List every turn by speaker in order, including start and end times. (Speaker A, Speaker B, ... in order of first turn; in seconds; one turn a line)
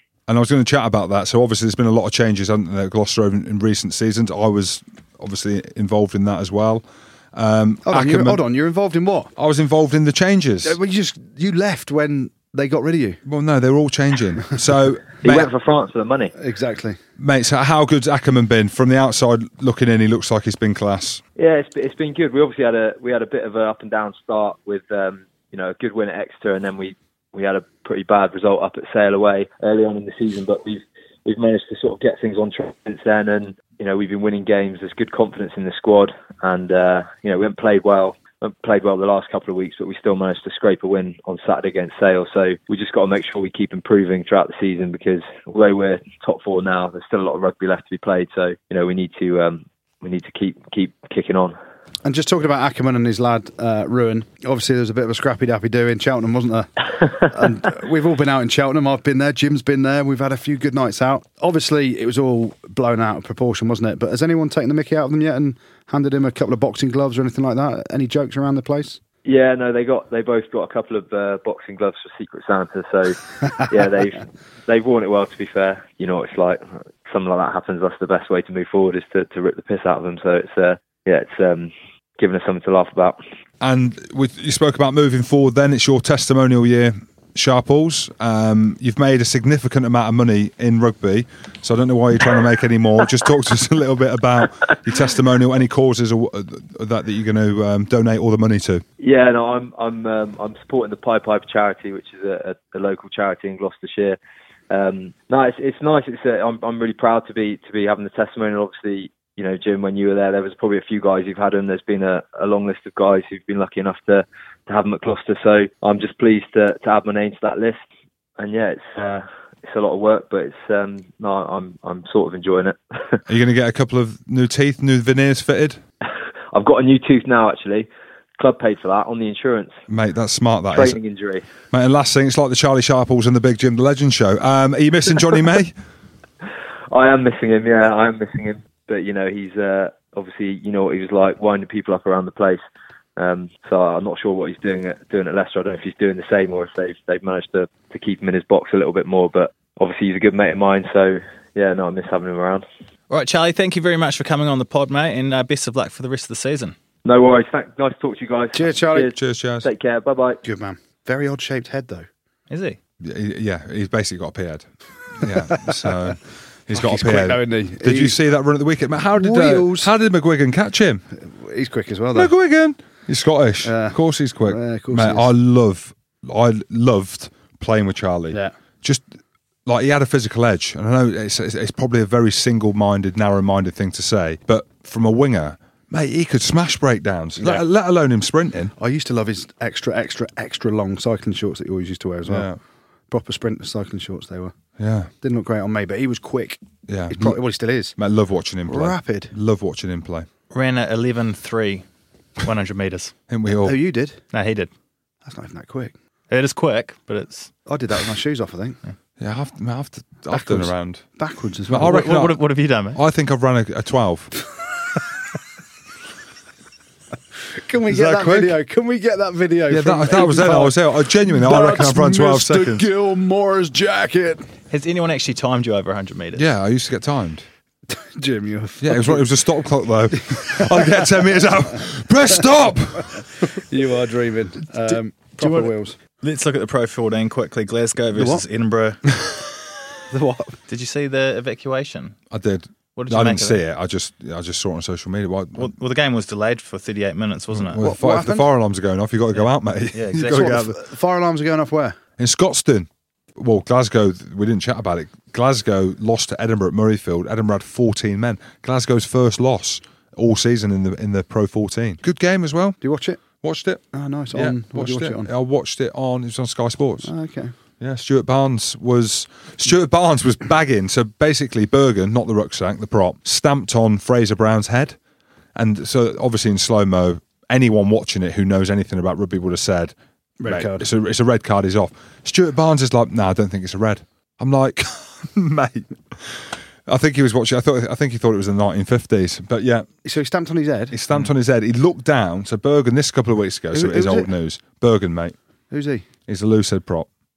Speaker A: 0.3-8.4
Speaker B: 7.8-9.3
Speaker A: 9.3-10.8
Speaker B: 10.6-13.2
Speaker A: 13.2-15.5
Speaker C: 15.2-16.3
Speaker B: 16.4-17.0
Speaker A: 17.2-21.2
Speaker C: 21.4-51.5
Speaker B: 52.0-69.0
Speaker C: 69.2-83.2
Speaker A: 83.6-98.8
Speaker C: 99.0-104.2
Speaker C: 104.7-117.8
Speaker C: 118.4-123.2
Speaker A: 123.3-125.8
Speaker C: 126.5-129.8
Speaker A: 129.9-131.0
Speaker C: 130.7-131.5
Speaker A: 131.7-135.7
Speaker C: 136.9-142.6
Speaker C: 143.2-152.6
Speaker D: 153.1-156.8
Speaker C: 157.0-160.4
Speaker B: 158.5-159.1
Speaker A: 159.1-159.7
Speaker B: 160.4-162.1
Speaker D: 162.5-162.8
Speaker A: 163.0-164.7
Speaker A: 165.2-171.0
Speaker B: 165.2-166.2
Speaker B: 166.7-168.2
Speaker B: 169.1-169.9
Speaker B: 171.2-172.3
Speaker A: 172.1-179.1
Speaker B: 173.6-175.3
Speaker A: 179.7-188.7
Speaker B: 187.4-187.6
Speaker B: 188.8-192.5
Speaker A: 192.2-192.6
Speaker B: 193.1-194.5
Speaker A: 194.8-195.1
Speaker B: 195.2-197.9
Speaker A: 196.9-197.4
Speaker A: 198.0-200.3
Speaker B: 198.7-199.3
Speaker D: 200.5-201.8
Speaker D: 202.4-203.1
Speaker A: 203.3-203.8
Speaker B: 203.6-204.2
Speaker D: 204.3-204.7
Speaker B: 205.2-205.9
Speaker D: 206.3-207.5
Speaker B: 207.7-208.8
Speaker A: 209.2-211.0
Speaker B: 210.3-212.1
Speaker A: 211.7-212.4
Speaker D: 211.8-213.0
Speaker A: 212.9-214.3
Speaker B: 217.5-224.4
Speaker A: 217.9-218.6
Speaker A: 219.7-222.8
Speaker D: 224.7-226.5
Speaker A: 226.3-227.4
Speaker B: 227.9-229.2
Speaker A: 228.8-233.5
Speaker B: 230.1-231.2
Speaker B: 233.2-236.0
Speaker D: 235.4-239.1
Speaker B: 238.1-238.4
Speaker B: 240.1-240.6
Speaker D: 240.7-242.2
Speaker A: 242.3-245.7
Speaker D: 243.0-243.6
Speaker D: 245.6-247.9
Speaker A: 247.5-250.7
Speaker B: 247.8-248.5
Speaker D: 249.3-250.7
Speaker B: 250.2-252.0
Speaker A: 252.2-262.8
Speaker B: 262.8-263.2
Speaker A: 263.4-267.1
Speaker B: 263.9-265.3
Speaker B: 267.0-267.5
Speaker A: 267.8-275.0
Speaker A: 275.6-279.9
Speaker B: 280.4-280.9
Speaker A: 280.4-289.9
Speaker B: 290.0-291.0
Speaker A: 290.9-295.4
Speaker B: 293.7-294.3
Speaker B: 295.7-296.1
Speaker A: 296.3-297.1